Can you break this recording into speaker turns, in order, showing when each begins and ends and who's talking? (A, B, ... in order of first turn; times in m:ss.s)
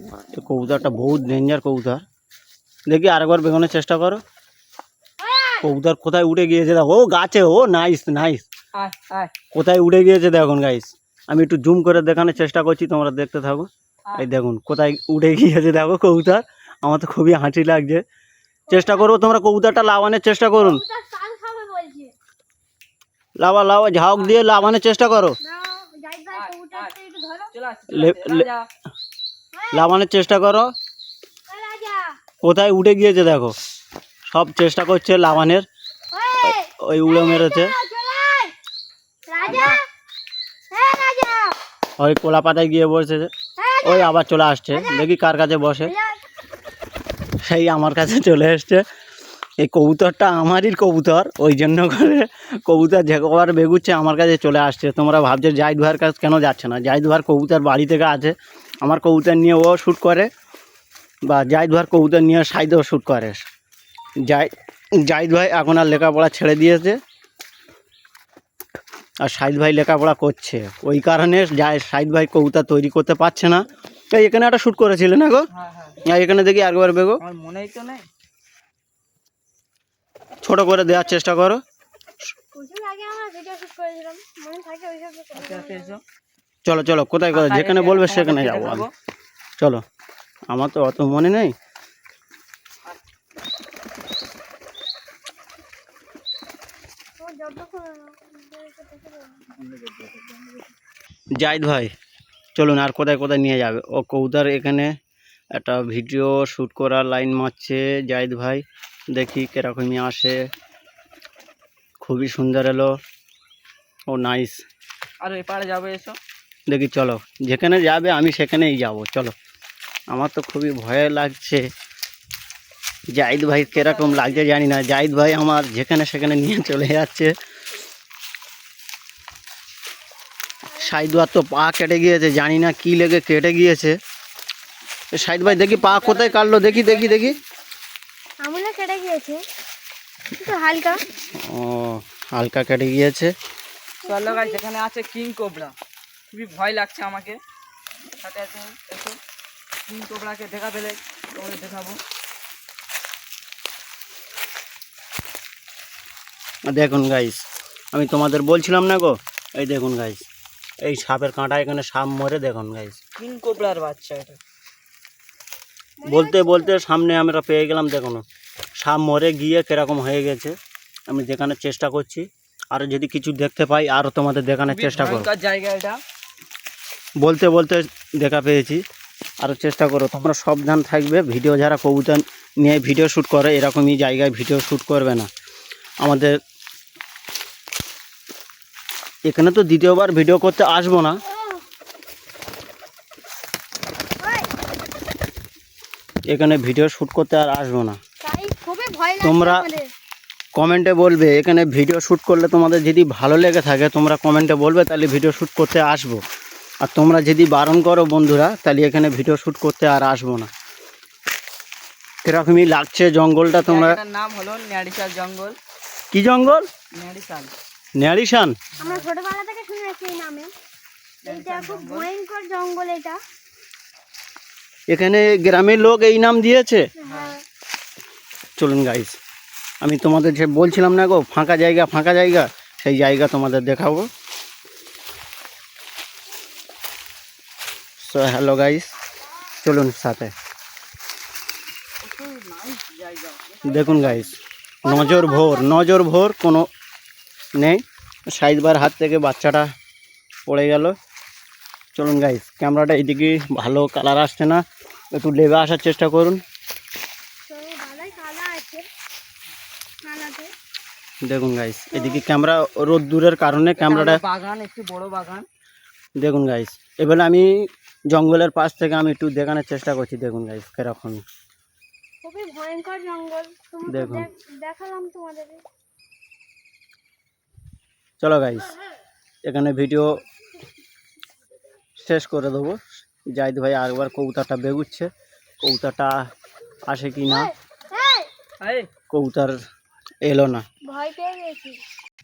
0:00.3-0:02.0 A
0:02.9-0:04.2 A
0:05.2-0:05.7 B
0:05.6-0:08.4 A
0:08.8-0:09.3 C
0:09.5-0:18.0 A
0:18.7-0:19.1 B
0:18.7-0:20.8 A
0:20.6-0:22.1 B
0:23.4-0:25.4 A
0:25.4-0:27.5 B
0:26.3-0:26.9 C
0:27.5-0:28.7 C
0:27.9-0:28.5 A
0:29.5-0:29.9 B
0:29.7-0:30.7 A
0:31.5-0:32.2 B
0:32.4-0:33.6 A
0:34.3-0:35.7 A
0:36.1-0:38.6 B
0:36.5-0:37.8 A
0:39.3-0:39.8 B
0:39.4-0:39.8 C
0:40.7-0:41.6 B
0:42.0-0:43.3 A
0:43.6-0:44.2 B
0:43.8-0:45.9 A
0:44.7-0:45.1 B
0:45.8-0:46.2 B
0:47.5-0:48.8 A
0:49.6-1:00.3 A
1:01.3-1:03.4 A
1:05.1-1:07.0 A
1:09.2-1:15.5 A
1:15.5-1:16.0 C
1:16.0-1:17.2 A
1:17.2-1:18.1 C
1:20.4-1:21.6 A
1:22.5-1:26.0 B
1:25.4-1:26.0 C
1:26.7-1:28.9 A
1:27.3-1:28.9 C
1:30.5-1:31.5 A
1:37.2-1:40.6 B
1:41.4-1:41.9 A
1:42.6-1:44.9 A
1:45.6-1:50.4 A
1:52.0-1:52.9 A
1:54.1-1:54.6 A
1:55.2-1:56.2 C
1:56.7-1:59.3 A
2:00.1-2:01.6 A
2:03.1-2:07.3 A
2:03.3-2:04.5 C
2:10.8-2:14.0 A
2:15.2-2:17.4 A
2:15.3-2:17.4 C
2:18.4-2:19.4 B
2:20.4-2:21.0 B
2:21.4-2:23.3 A
2:24.0-2:24.6 B
2:24.1-2:25.8 C
2:26.3-2:27.4 C
2:28.2-2:29.2 C
2:29.9-2:32.0 C
2:36.7-2:40.2 A
2:40.8-2:43.0 A
2:43.2-2:44.4 C
2:46.0-2:46.7 B
2:46.1-2:48.2 A
2:48.8-2:50.5 A
2:51.1-2:55.3 A
2:54.7-2:56.0 C
2:57.2-2:58.8 A
2:59.4-3:05.3 A
3:06.0-3:06.3 A
3:09.3-3:11.2 A
3:11.2-3:11.6 B
3:14.2-3:14.5 B
3:16.3-3:18.0 A
3:18.2-3:19.9 B
3:19.2-3:19.7 A
3:20.6-3:26.2 A
3:26.8-3:30.5 A
3:32.2-3:34.0 A
3:33.6-3:35.6 C
3:36.1-3:36.7 A
3:36.9-3:37.5 C
3:38.0-3:38.6 A
3:38.8-3:39.1 C
3:38.8-3:40.5 B
3:41.2-3:42.1 C
3:41.2-3:43.2 B
3:44.9-3:46.9 A
3:47.0-3:47.4 B
3:47.0-3:47.4 C
3:48.6-3:49.2 A
3:49.8-3:54.1 A
3:58.0-3:58.9 A
3:59.6-4:00.3 A
4:02.0-4:04.3 C
4:03.6-4:06.7 A
4:04.8-4:05.7 B
4:07.6-4:09.7 A
4:10.5-4:11.0 A
4:12.0-4:14.6 A
4:15.1-4:16.4 A
4:17.5-4:18.9 B
4:20.0-4:20.5 B
4:21.3-4:24.2 A
4:21.9-4:22.2 B
4:23.8-4:25.5 C
4:26.2-4:27.5 A
4:28.1-4:31.2 A
4:32.2-4:35.6 B
4:33.9-4:34.3 A
4:38.2-4:38.7 A
4:39.4-4:40.1 A
4:42.0-4:42.8 A
4:43.3-4:45.1 A
4:45.6-4:46.3 A
4:46.9-4:47.5 A
4:47.3-4:48.3 B
4:48.6-4:48.9 C
4:49.1-4:49.6 A
4:50.2-4:50.6 A
4:50.8-4:51.8 B